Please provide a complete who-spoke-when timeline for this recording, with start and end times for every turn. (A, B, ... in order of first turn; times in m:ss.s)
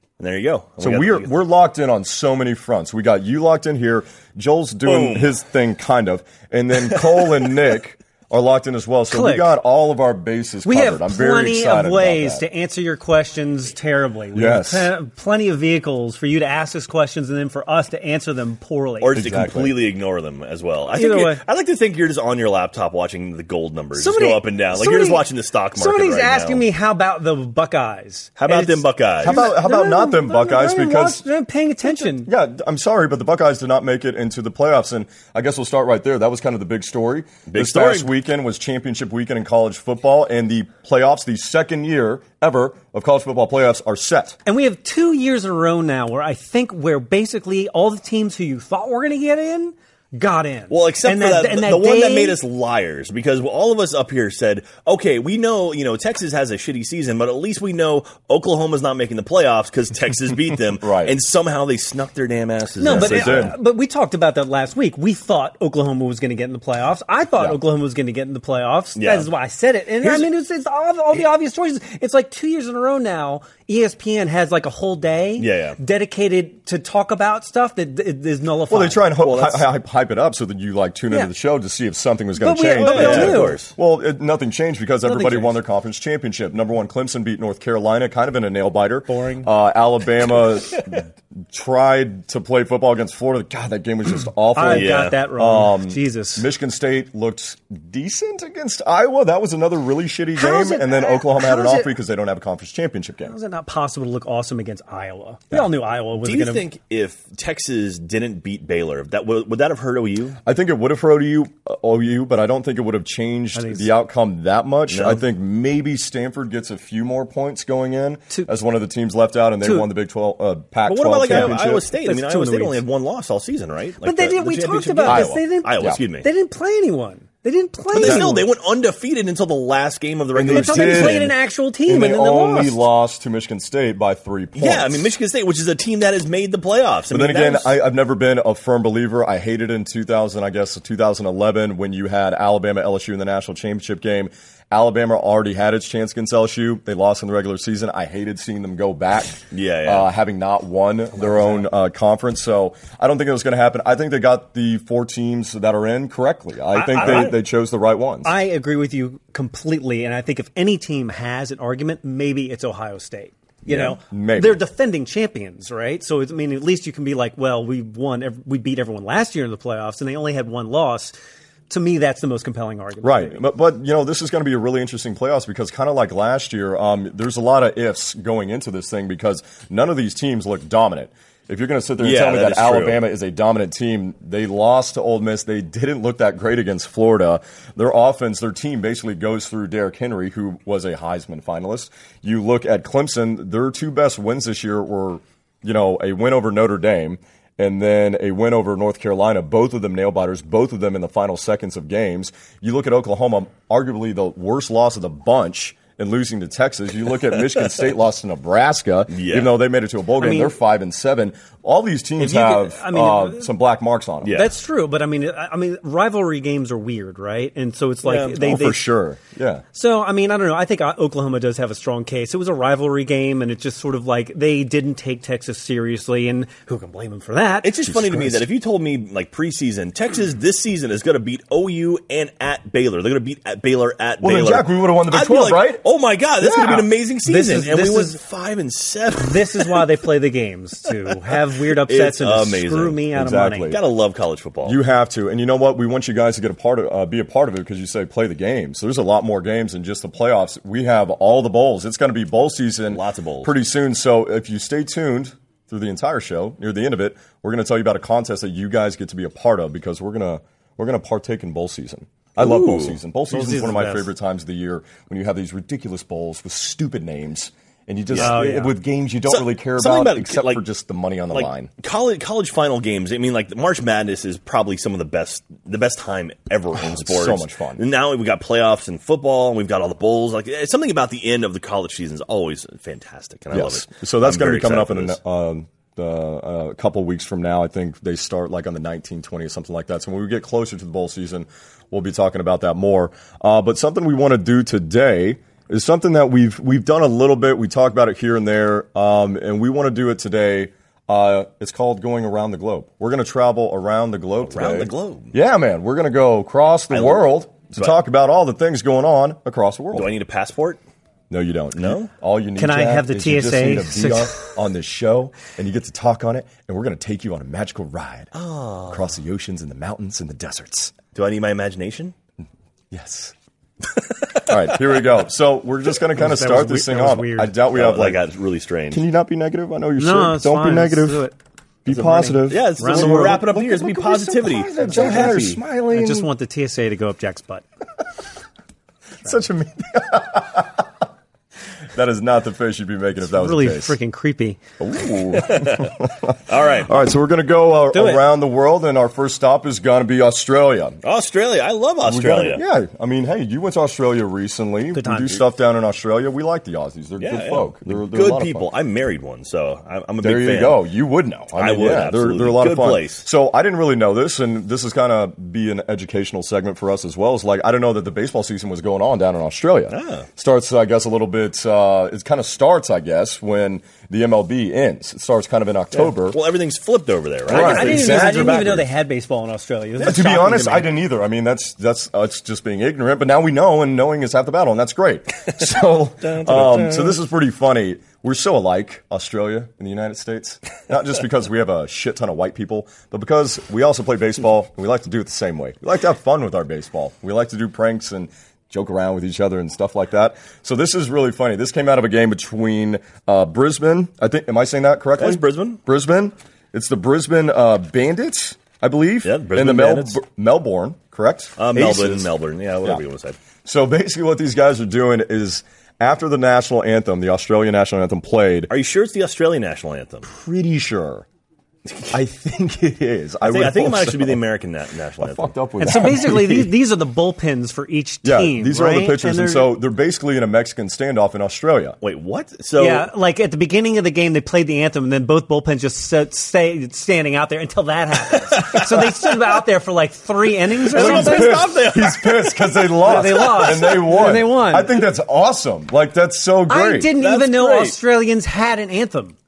0:00.2-0:01.3 A
0:00.8-0:12.4 B
0:04.8-0:05.3 A
0:06.9-0:07.3 A
0:09.1-0:09.5 C
0:10.6-0:19.2 C
0:14.3-0:14.9 B
0:19.0-0:26.6 A
0:19.1-0:19.8 B
0:21.0-0:21.4 C
0:24.0-0:25.2 C
0:25.8-0:32.3 C
0:28.4-0:29.4 A
0:29.2-0:31.2 B
0:31.9-0:44.4 B
0:37.5-0:38.1 A
0:44.5-0:52.4 C
0:50.7-1:03.5 A
1:00.8-1:01.2 B
1:02.8-1:19.6 C
1:02.8-1:03.6 B
1:09.0-1:09.3 A
1:15.4-1:15.8 A
1:18.7-1:43.4 B
1:22.4-1:23.6 C
1:22.8-1:23.7 A
1:25.0-1:25.6 C
1:29.1-1:29.5 C
1:34.6-1:36.5 C
1:34.6-1:35.2 A
1:40.4-1:41.9 C
1:43.2-1:46.6 C
1:46.2-1:50.4 A
1:50.4-2:01.9 B
1:53.6-1:53.9 C
1:54.9-1:55.2 A
1:59.6-1:59.9 C
2:00.9-2:06.3 A
2:01.3-2:02.8 C
2:04.0-2:08.5 C
2:05.0-2:06.0 B
2:07.9-2:08.3 B
2:07.9-2:11.2 A
2:10.3-2:15.1 B
2:10.5-2:12.8 C
2:14.6-2:17.8 A
2:17.1-2:38.3 B
2:29.5-2:30.1 A
2:31.2-2:31.6 C
2:36.7-2:37.3 C
2:36.9-2:37.4 A
2:38.2-2:51.2 C
2:43.7-2:44.6 B
2:51.7-2:53.4 C
2:53.0-3:34.4 B
3:02.0-3:03.0 A
3:29.1-3:29.5 A
3:30.2-3:30.6 C
3:32.2-3:33.5 C
3:34.2-3:34.5 A
3:34.3-3:38.8 C
3:38.0-3:38.3 A
3:38.3-3:39.6 B
3:39.7-3:48.0 C
3:47.6-3:59.8 A
3:47.9-3:48.4 B
3:54.2-3:55.8 B
3:56.4-3:56.9 B
3:57.3-3:58.2 C
3:59.2-4:03.7 C
4:01.8-4:03.0 A
4:03.1-4:03.8 B
4:03.7-4:04.8 A
4:04.6-4:31.7 B
4:12.9-4:13.5 A
4:22.4-4:23.0 A
4:23.3-4:24.1 C
4:28.1-4:28.4 A
4:28.2-4:28.8 C
4:29.3-4:30.6 A
4:31.3-4:45.2 A
4:36.7-4:37.8 B
4:43.5-5:10.1 B
5:04.4-5:05.3 A
5:06.9-5:07.9 A
5:09.9-5:10.8 A
5:11.3-5:18.3 B
5:11.8-5:12.1 A
5:12.6-5:14.4 C
5:18.4-5:19.1 A
5:18.9-5:21.0 B
5:21.1-5:22.1 A
5:22.9-5:23.3 B
5:24.4-5:28.2 B
5:26.2-5:27.5 C
5:27.7-5:29.0 A
5:28.9-5:31.2 B
5:30.0-5:31.4 C
5:31.8-5:36.3 B
5:31.9-5:35.6 A
5:32.0-5:33.5 C
5:34.7-5:37.7 C
5:39.2-5:40.9 B
5:41.9-5:44.0 B
5:43.3-5:44.6 C
5:44.8-5:51.0 B
5:45.4-5:45.9 A
5:46.5-5:46.9 A
5:47.9-5:48.3 C
5:51.0-5:52.6 A
5:52.0-5:58.7 B
5:54.9-5:55.4 C
5:57.2-6:00.8 A
6:00.2-6:16.4 B
6:01.6-6:03.2 A
6:09.9-6:10.3 A
6:16.0-6:18.8 A
6:17.5-6:18.9 B
6:17.5-6:20.9 C
6:20.0-6:52.3 B
6:26.2-6:27.2 A
6:45.2-6:45.8 A
6:49.2-6:50.2 A
6:51.6-6:53.4 A
6:53.6-6:58.7 B
6:58.7-7:00.2 A
7:00.2-7:01.3 B
7:01.9-7:02.1 A
7:02.1-7:04.4 B
7:03.4-7:05.6 A
7:05.2-7:06.7 B
7:05.8-7:09.7 C
7:08.2-7:12.0 B
7:12.0-7:13.1 A
7:12.8-7:21.6 C
7:18.5-7:19.0 A
7:20.9-7:23.8 A
7:20.9-7:27.1 B
7:23.0-7:25.0 C
7:26.7-7:29.4 C
7:27.2-7:28.0 A